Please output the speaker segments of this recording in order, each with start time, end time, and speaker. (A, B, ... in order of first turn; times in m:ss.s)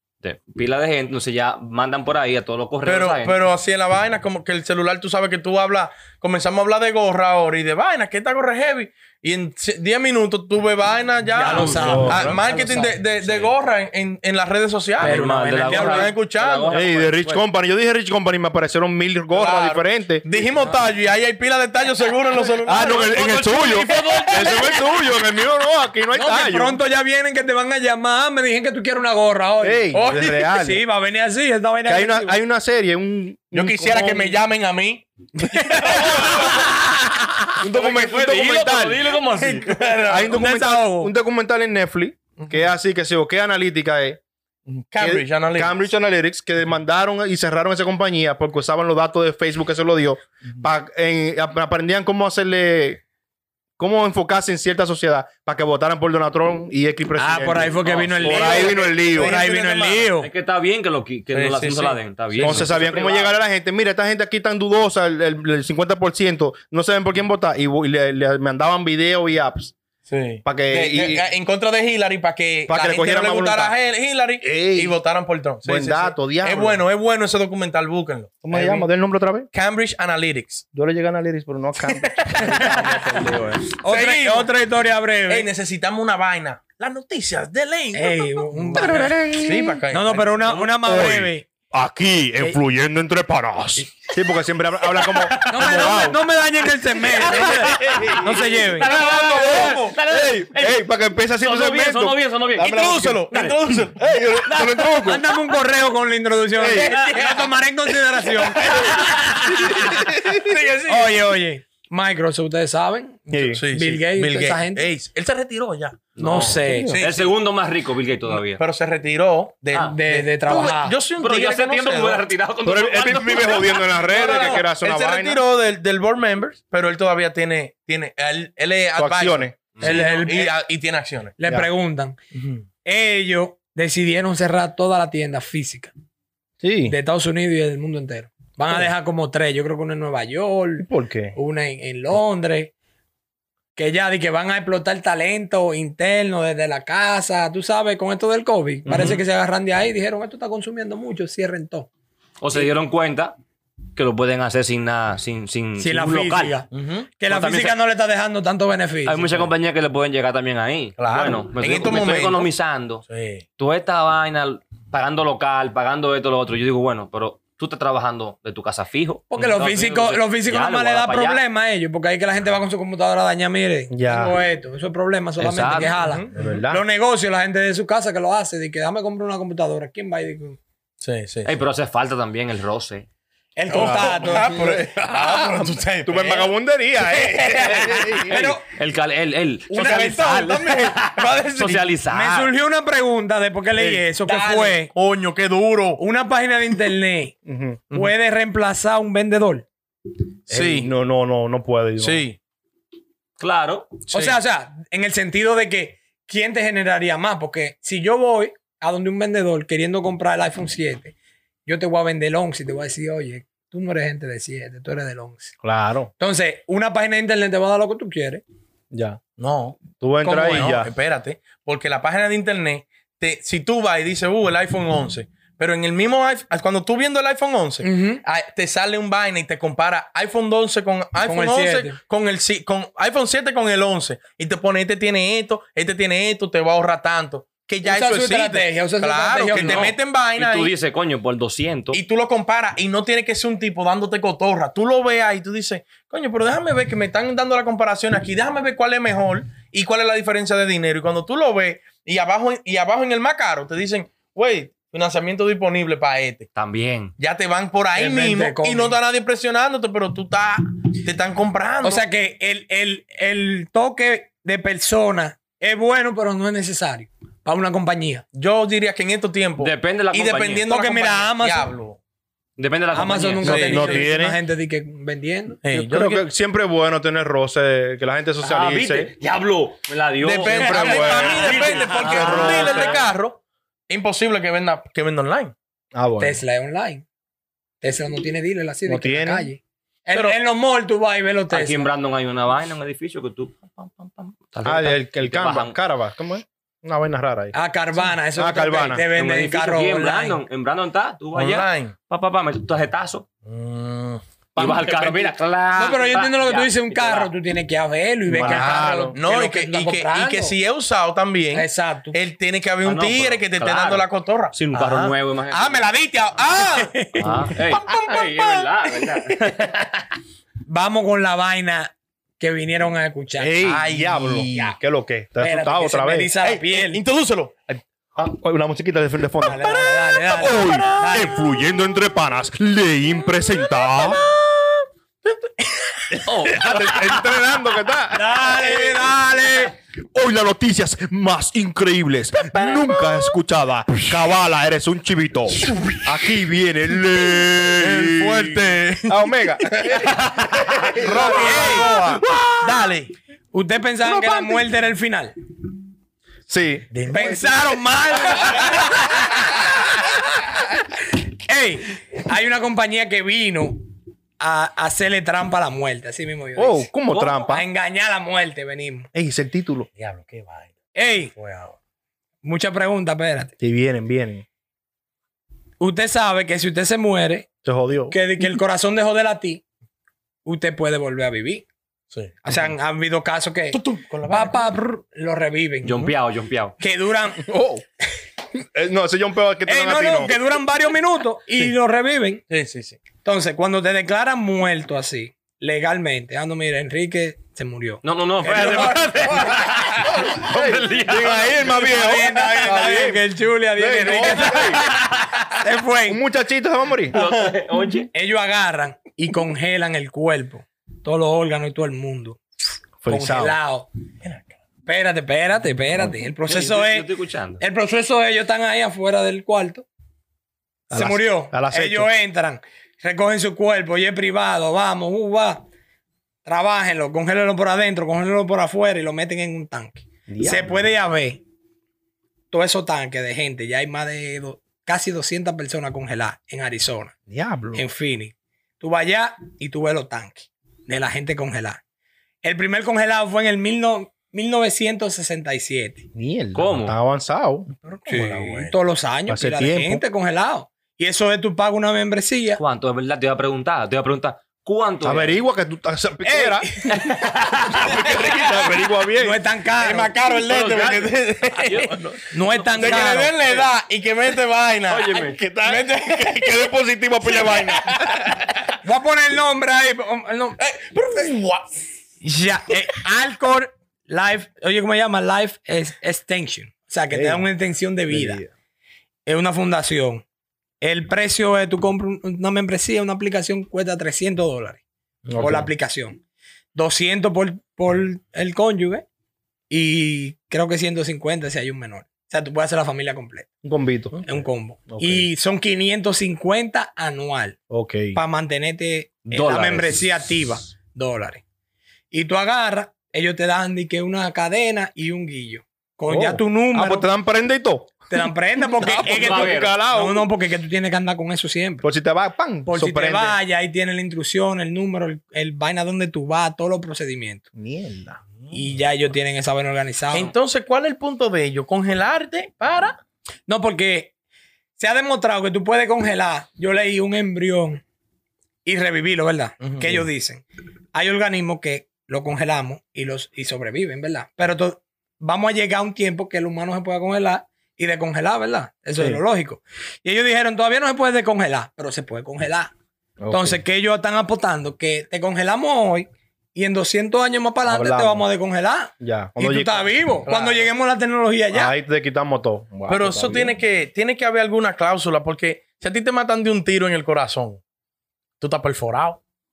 0:00.2-0:03.4 A
0:02.8-0:16.9 B
0:11.4-0:13.0 C
0:11.4-0:12.2 A
0:11.6-0:12.4 D
0:13.2-0:13.5 A
0:15.0-0:17.4 A
0:15.0-0:16.1 C
0:16.7-0:20.2 D
0:19.3-0:22.9 B
0:22.6-0:26.8 D
0:22.7-0:24.5 A
0:23.8-0:24.9 C
0:26.1-0:32.4 C
0:29.6-0:30.8 D
0:29.9-0:30.4 B
0:31.9-0:34.4 D
0:33.5-0:36.7 B
0:35.7-0:36.1 C
0:35.9-0:37.0 D
0:37.5-0:39.1 D
0:37.6-0:39.9 A
0:39.2-0:40.3 B
0:40.1-0:44.2 D
0:40.3-0:41.1 C
0:44.7-0:45.8 B
0:45.0-0:53.0 D
0:53.8-0:59.4 D
0:57.2-1:00.3 C
0:57.8-0:58.5 A
0:58.2-1:00.1 B
1:00.2-1:03.3 A
1:01.3-1:03.3 B
1:02.4-1:09.7 D
1:10.1-1:18.9 B
1:10.4-1:11.3 D
1:12.7-1:13.8 D
1:14.4-1:15.0 D
1:15.6-1:16.8 D
1:18.4-1:19.5 D
1:19.5-1:20.6 B
1:20.7-1:23.7 D
1:21.8-1:22.6 B
1:22.4-1:25.5 C
1:23.9-1:24.5 B
1:25.3-1:30.6 B
1:27.9-1:29.2 C
1:28.7-1:29.8 D
1:29.9-1:31.5 C
1:30.6-1:36.2 D
1:35.0-1:35.9 A
1:35.5-1:38.9 C
1:37.1-1:43.6 A
1:37.2-1:38.5 D
1:38.8-1:40.0 B
1:39.3-1:43.3 D
1:42.6-1:44.1 B
1:44.0-1:45.2 D
1:44.5-1:45.1 A
1:45.0-1:50.1 C
1:46.6-1:47.0 D
1:46.7-1:47.2 A
1:46.9-1:47.6 B
1:48.2-1:49.0 B
1:49.9-1:50.3 D
1:50.2-1:51.2 B
1:50.9-1:54.9 C
1:53.3-1:53.6 D
1:53.6-1:57.3 B
1:56.2-1:58.6 A
1:56.2-1:56.9 C
1:56.7-1:57.0 D
1:58.5-2:02.3 B
1:59.8-2:01.0 C
2:01.2-2:04.0 A
2:02.6-2:05.4 D
2:03.8-2:11.4 B
2:09.0-2:09.6 D
2:09.8-2:10.1 A
2:09.8-2:10.6 C
2:11.4-2:12.2 C
2:12.3-2:12.6 B
2:12.8-2:15.9 C
2:16.6-2:17.0 D
2:16.9-2:22.7 C
2:20.8-2:21.4 D
2:23.8-2:31.9 C
2:28.9-2:29.2 D
2:28.9-2:29.2 A
2:32.4-2:33.4 A
2:34.0-2:36.6 A
2:35.8-2:39.5 C
2:36.7-2:37.1 B
2:37.3-2:37.8 A
2:39.0-2:43.0 A
2:41.0-2:42.5 B
2:43.1-2:43.4 B
2:43.6-2:51.4 A
2:49.3-3:00.6 C
2:53.9-2:54.4 D
2:55.4-2:55.9 A
2:55.9-2:56.3 B
2:56.3-2:56.8 D
3:01.0-3:01.5 B
3:01.4-3:03.1 A
3:03.6-3:04.7 C
3:03.7-3:08.3 B
3:03.7-3:08.4 D
3:08.2-3:08.6 C
3:08.3-3:12.5 A
3:09.7-3:12.0 B
3:09.8-3:10.1 C
3:12.1-3:14.9 C
3:13.8-3:16.0 B
3:16.0-3:17.4 C
3:17.5-3:17.8 D
3:17.9-3:19.7 C
3:20.5-3:22.2 D
3:20.5-3:20.9 B
3:22.0-3:22.4 B
3:23.4-3:23.9 A
3:24.1-3:24.4 B
3:24.1-3:31.2 C
3:31.7-3:35.5 C
3:35.6-3:36.1 D
3:36.2-3:38.4 C
3:38.9-3:39.2 D
3:39.4-4:00.7 B
3:40.0-3:40.9 D
3:40.2-3:40.7 C
3:47.8-3:48.2 C
3:51.2-3:52.0 C
3:57.8-4:00.0 C
3:59.6-4:02.0 A
4:01.9-4:16.5 B
4:16.5-4:17.1 A
4:17.2-4:22.1 B
4:18.0-4:19.0 C
4:21.8-4:28.2 C
4:28.3-4:32.0 B
4:29.6-4:30.7 A
4:30.6-4:31.7 C
4:32.6-4:33.7 A
4:32.9-4:35.6 C
4:33.4-4:33.9 B
4:33.4-4:34.4 D
4:35.6-4:36.3 B
4:35.7-4:39.1 D
4:38.4-4:43.0 A
4:40.2-4:45.6 B
4:40.4-4:43.0 D
4:40.8-4:42.8 C
4:45.9-4:46.4 D
4:46.2-4:47.0 C
4:47.8-4:51.9 C
4:48.9-4:49.5 D
4:51.5-4:55.8 A
4:54.6-4:57.6 D
4:57.5-5:00.4 C
4:58.3-4:59.1 D
4:59.1-5:03.2 A
5:01.3-5:01.9 B
5:03.5-5:04.2 B
5:04.6-5:05.3 D
5:04.6-5:07.3 A
5:05.8-5:10.6 C
5:08.3-5:09.2 D
5:08.3-5:17.0 B
5:11.5-5:12.2 C
5:12.8-5:15.9 A
5:16.6-5:17.4 C
5:17.2-5:20.0 A
5:17.5-5:19.3 B
5:20.7-5:23.7 C
5:23.4-5:26.3 D
5:23.6-5:24.8 B
5:25.4-5:27.0 C
5:26.4-5:27.8 B
5:28.2-5:29.8 D
5:29.4-5:31.4 C
5:29.7-5:31.2 B
5:30.3-5:34.2 D
5:33.8-5:34.6 B
5:35.2-5:36.2 B
5:36.1-5:39.4 D
5:36.3-5:36.9 A
5:38.1-5:39.7 C
5:40.2-5:52.4 D
5:42.6-5:42.9 B
5:47.8-5:50.1 B
5:50.2-5:50.9 A
5:50.8-5:53.1 B
5:51.2-5:51.9 C
5:53.5-5:55.3 C
5:54.0-5:54.6 D
5:56.5-5:57.4 D
5:56.9-5:57.6 B
5:57.1-6:00.2 C
6:01.5-6:03.8 C
6:04.4-6:06.9 C
6:06.6-6:07.7 D
6:07.1-6:07.5 A
6:07.5-6:09.1 C
6:09.1-6:09.9 D
6:10.0-6:10.8 B
6:11.0-6:11.3 C
6:11.3-6:11.8 B
6:12.4-6:13.5 C
6:13.6-6:14.4 D
6:15.8-6:17.5 C
6:17.6-6:18.2 D
6:18.1-6:19.6 C
6:20.4-6:21.7 C
6:22.1-6:22.4 B
6:22.4-6:26.2 C
6:23.7-6:24.7 B
6:25.8-6:26.8 A
6:26.8-6:27.5 C
6:27.4-6:27.8 D
6:28.7-6:30.4 D
6:29.7-6:32.4 C
6:32.5-6:33.0 B
6:33.2-6:39.0 C
6:38.0-6:41.7 A
6:38.5-6:39.5 B
6:38.7-6:39.0 D
6:40.0-6:44.9 D
6:41.6-6:44.8 C
6:41.8-6:42.8 B
6:44.4-6:45.6 A
6:45.6-6:46.2 C
6:46.1-6:47.2 D
6:47.1-6:48.1 A
6:47.1-6:47.6 B
6:48.1-6:52.4 C
6:53.0-6:53.6 D
6:53.1-6:53.9 C
6:54.2-6:54.5 B
6:54.9-6:57.1 C
6:56.5-6:57.6 A
6:57.6-6:59.9 C
7:00.9-7:02.1 D
7:00.9-7:05.6 C
7:06.4-7:11.4 C
7:10.3-7:10.9 D
7:12.5-7:17.1 C
7:17.3-7:17.8 D
7:17.7-7:21.8 C
7:22.4-7:26.1 C
7:26.2-7:27.7 D
7:26.6-7:27.0 A
7:27.8-7:28.8 B
7:28.0-7:32.6 C
7:29.3-7:30.0 D
7:32.5-7:35.4 A
7:35.0-7:36.8 D
7:36.2-7:37.0 C
7:36.9-7:38.0 A
7:37.6-7:39.4 D
7:39.2-7:40.2 C
7:39.8-7:42.0 B
7:40.5-7:43.1 A
7:42.3-7:43.4 C
7:42.8-7:48.2 B
7:44.9-7:45.4 A
7:45.3-7:48.2 D
7:48.8-7:50.6 C
7:50.6-7:51.7 B
7:52.2-7:58.4 C
7:57.1-7:57.5 D
7:58.1-7:58.5 D
7:59.3-8:00.2 C
8:00.8-8:04.8 C
8:05.3-8:05.7 D
8:05.4-8:06.2 C
8:06.8-8:09.1 C
8:09.7-8:13.5 C
8:13.6-8:14.2 D
8:14.2-8:17.6 C
8:14.9-8:15.3 D
8:17.7-8:18.2 D
8:18.1-8:21.4 C
8:19.2-8:20.1 A
8:22.1-8:27.1 C
8:26.1-8:30.3 D
8:28.1-8:31.9 C
8:29.1-8:29.7 A
8:31.8-8:33.4 D
8:32.7-8:37.4 C
8:37.6-8:38.2 D
8:38.5-8:40.3 C
8:40.1-8:43.0 B
8:43.5-8:44.1 C
8:44.8-8:47.8 C
8:48.6-9:02.7 C
8:49.6-8:49.9 B
9:03.2-9:03.6 D
9:03.3-9:11.7 C
9:07.6-9:08.3 D
9:09.0-9:09.9 D
9:10.2-9:10.7 B
9:11.5-9:13.6 D
9:12.9-9:17.6 B
9:18.4-9:19.2 B